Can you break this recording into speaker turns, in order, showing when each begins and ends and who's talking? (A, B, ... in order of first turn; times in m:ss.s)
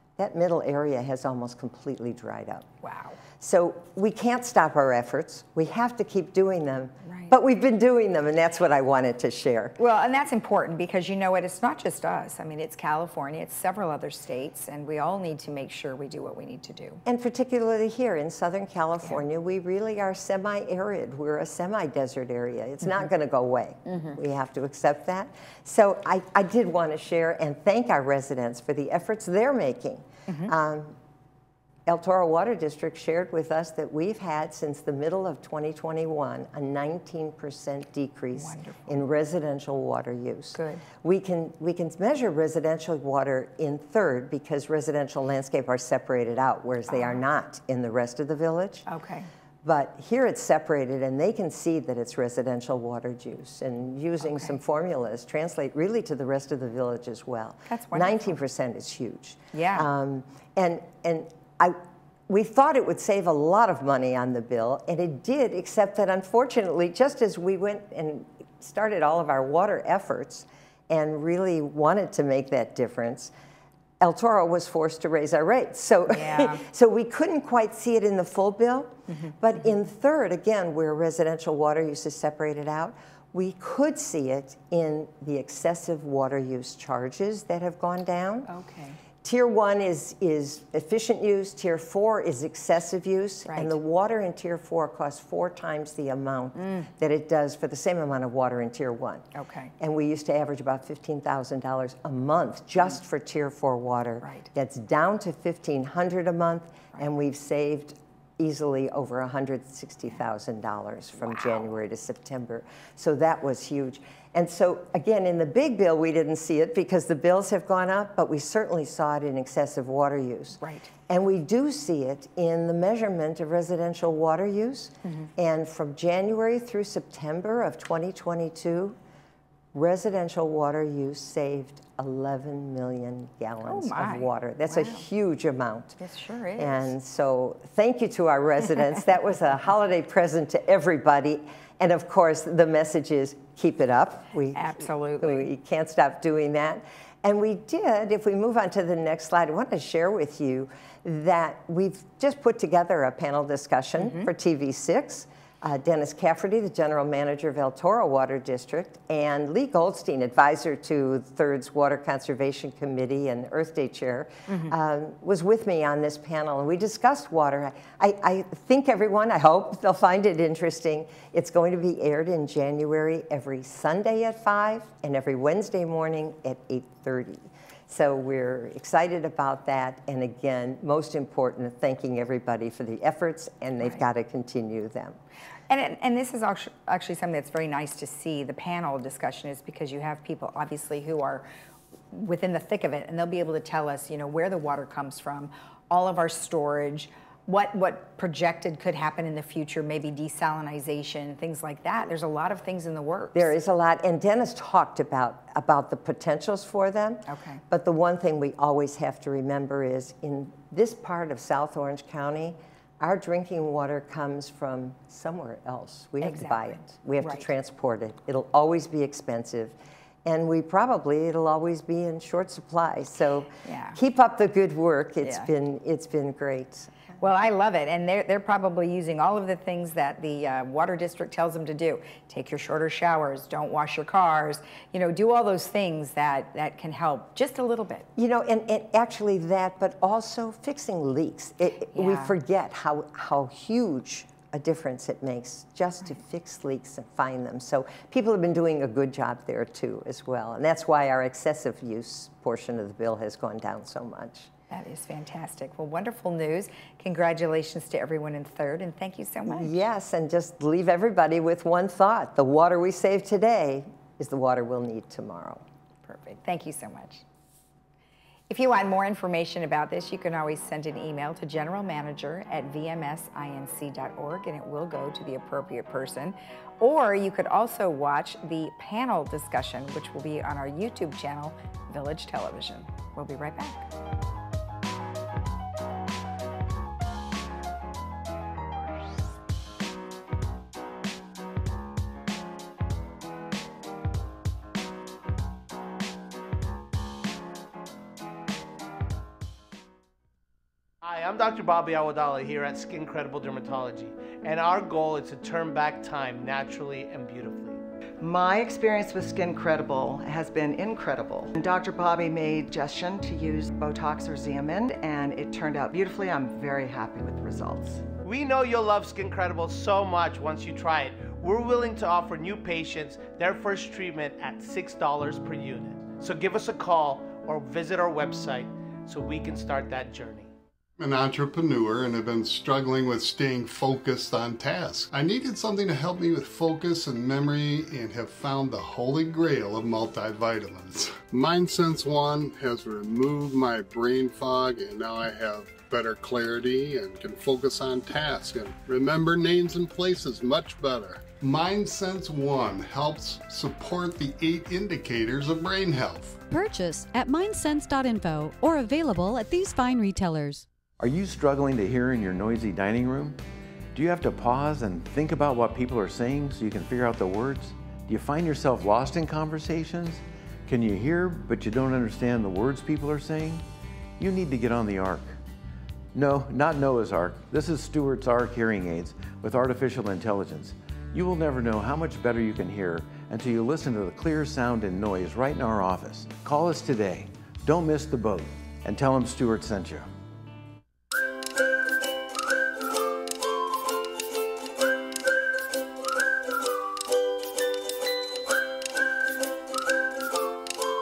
0:00.2-0:02.7 A
0:02.8-0:03.2 B
0:03.4-0:09.8 A
0:07.0-0:07.3 B
0:09.8-0:17.0 B
0:17.0-0:31.0 A
0:23.9-0:24.2 B
0:31.9-0:48.9 A
0:38.3-0:39.0 B
0:40.5-0:40.8 B
0:46.9-0:47.2 B
0:48.9-0:49.3 B
0:49.6-1:13.3 A
0:54.2-0:54.5 B
0:57.7-0:58.4 B
0:59.5-0:59.9 B
1:14.0-1:28.5 A
1:16.1-1:16.6 B
1:19.1-1:19.3 B
1:28.5-1:29.0 B
1:29.2-1:39.2 A
1:33.5-1:33.8 B
1:36.6-1:36.9 B
1:39.3-1:39.7 B
1:39.8-2:09.0 A
1:44.2-1:44.5 B
1:51.2-1:51.6 B
2:00.6-2:00.9 B
2:05.0-2:05.3 B
2:09.7-2:16.0 A
2:13.7-2:15.0 B
2:16.0-2:16.9 B
2:16.6-3:05.2 A
2:24.6-2:25.5 B
2:34.0-2:34.3 B
2:44.5-2:44.7 B
3:05.7-3:11.4 B
3:12.1-3:23.5 B
3:23.3-3:46.9 A
3:27.3-3:27.6 B
3:36.2-3:37.5 B
3:43.6-3:44.0 B
3:45.2-3:45.5 B
3:47.2-3:58.1 B
3:58.2-4:14.5 A
4:01.9-4:02.3 B
4:14.7-4:19.8 B
4:19.4-4:25.6 A
4:26.1-4:27.2 B
4:28.5-4:43.9 B
5:01.0-5:07.8 C
5:08.2-5:18.0 D
5:18.2-5:30.5 C
5:31.0-5:56.4 E
5:56.4-6:00.7 F
6:01.0-6:03.4 G
6:03.9-6:13.6 G
6:14.2-6:15.4 G
6:16.1-6:30.1 G